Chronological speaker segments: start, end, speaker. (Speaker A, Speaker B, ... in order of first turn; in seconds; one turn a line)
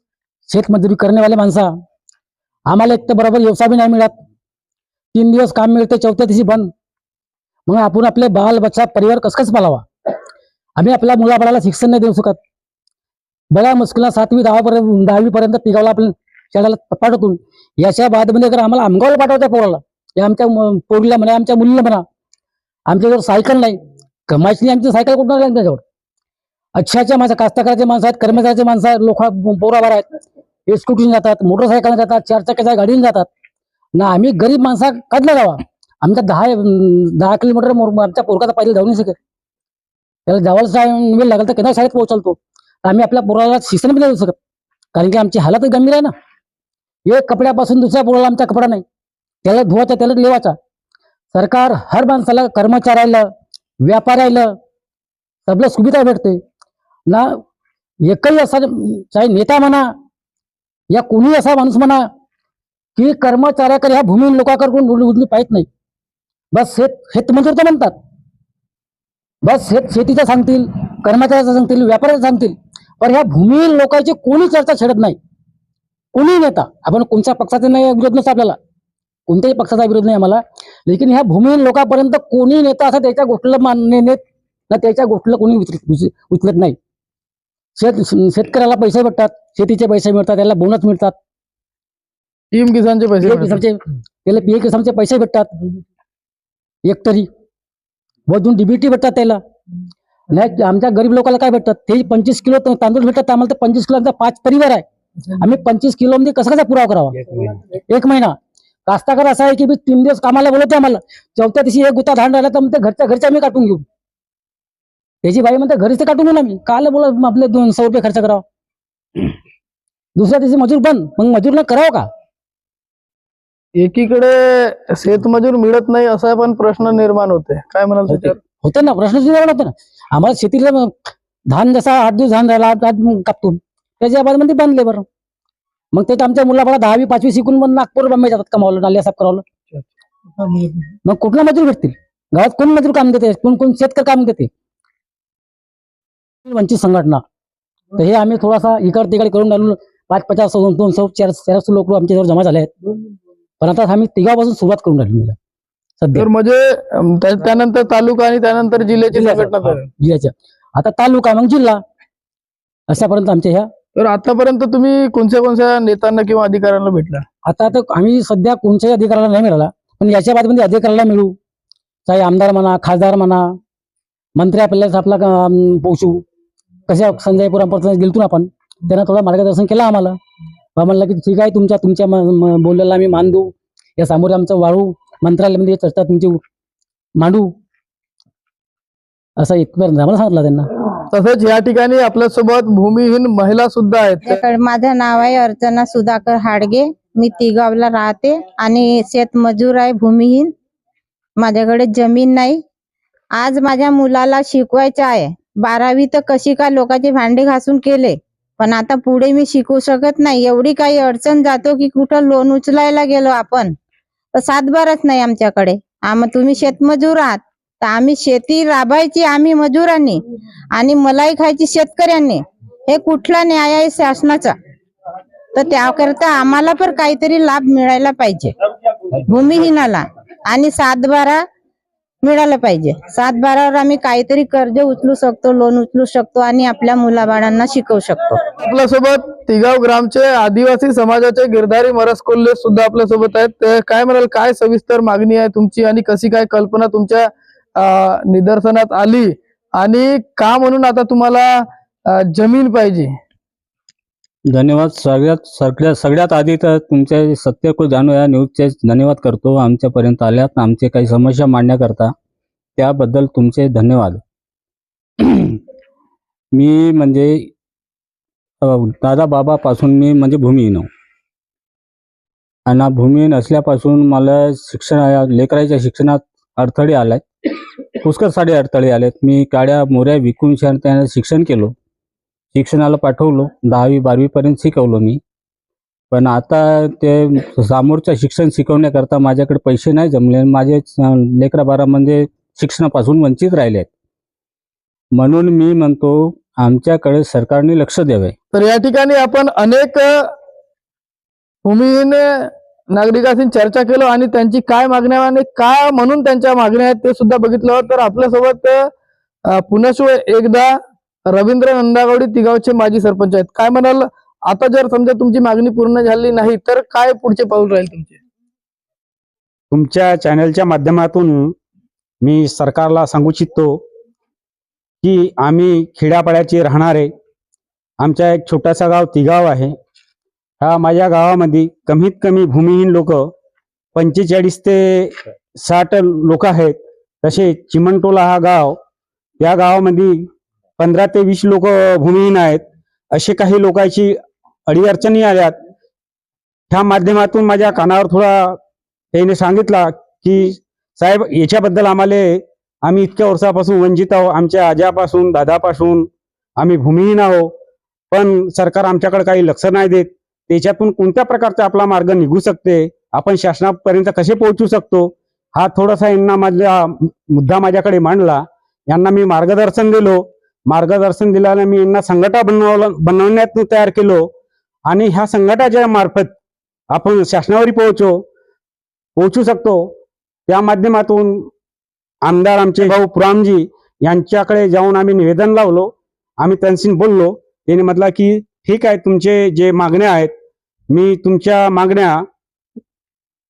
Speaker A: 0.5-1.7
Speaker A: 2.7-4.1
Speaker A: 5.1-6.7
Speaker A: 7.7-9.9
Speaker A: 10.8-12.4
Speaker A: 13.5-22.0
Speaker A: 22.9-25.8
Speaker A: 26.7-33.3
Speaker A: 34.0-39.1
Speaker A: 40.3-44.4
Speaker A: 44.9-46.1
Speaker A: 47.0-48.8
Speaker A: 49.4-50.5
Speaker A: 51.3-53.3
Speaker A: 53.8-54.5
Speaker A: 55.5-56.4
Speaker A: 57.1-57.4
Speaker A: 58.0-59.9
Speaker A: 60.9-62.0
Speaker A: 63.0-65.7
Speaker A: 66.5-67.9
Speaker A: 69.4-75.2
Speaker A: 76.1-78.6
Speaker A: 79.3-86.8
Speaker A: 87.8-91.1
Speaker B: 92.5-93.6
Speaker A: 93.2-95.5
Speaker A: 96.8-97.3
Speaker A: 98.3-99.4
Speaker A: 100.3-108.3
Speaker A: 108.8-113.8
Speaker A: 115.2-118.4
Speaker A: 120.2-122.1
Speaker B: 123.8-128.3
Speaker A: 128.1-130.9
Speaker A: 131.5-135.0
Speaker A: 135.9-139.4
Speaker A: 141.0-144.5
Speaker A: 146.4-147.2
Speaker A: 147.9-152.7
Speaker A: 153.6-155.3
Speaker A: 156.0-156.2
Speaker B: 156.2-159.8
Speaker A: 159.1-161.8
Speaker A: 162.9-163.7
Speaker B: 163.9-167.2
Speaker A: 167.4-171.3
Speaker A: 172.1-173.5
Speaker A: 174.3-176.2
Speaker A: 176.9-180.2
Speaker A: 180.8-186.4
Speaker A: 187.2-187.5
Speaker A: 189.4-190.7
Speaker B: 191.1-194.3
Speaker C: 194.2-200.5
Speaker C: 201.4-202.6
Speaker C: 203.3-213.7
Speaker C: 214.3-220.2
Speaker C: 220.7-224.5
Speaker C: 225.5-228.5
Speaker C: 229.3-231.4
Speaker C: 232.2-238.4
Speaker B: 238.6-251.6
Speaker B: 252.1-253.1
Speaker D: 254.5-262.1
Speaker D: 262.8-264.2
Speaker D: 265.2-265.6
Speaker D: 266.5-267.5
Speaker D: 268.6-270.9
Speaker D: 272.7-277.2
Speaker D: 278.0-281.7
Speaker D: 282.5-285.2
Speaker D: 286.1-293.9
Speaker D: 295.1-298.3
Speaker B: 298.5-300.2
Speaker B: 301.6-308.9
Speaker B: 309.5-310.7
Speaker B: 311.3-318.2
Speaker E: 319.7-321.5
Speaker E: 322.2-323.8
Speaker E: 325.0-327.1
Speaker E: 328.0-329.7
Speaker E: 330.6-333.3
Speaker E: 333.9-338.8
Speaker E: 339.4-340.3
Speaker E: 340.8-342.6
Speaker E: 343.1-344.1
Speaker E: 344.7-345.5
Speaker E: 346.7-348.6
Speaker E: 349.1-356.1
Speaker E: 356.6-357.5
Speaker E: 358.1-374.2
Speaker E: 374.9-376.3
Speaker E: 376.9-378.2
Speaker E: 379.2-379.9
Speaker E: 380.5-381.5
Speaker E: 382.2-390.3
Speaker E: 390.9-392.2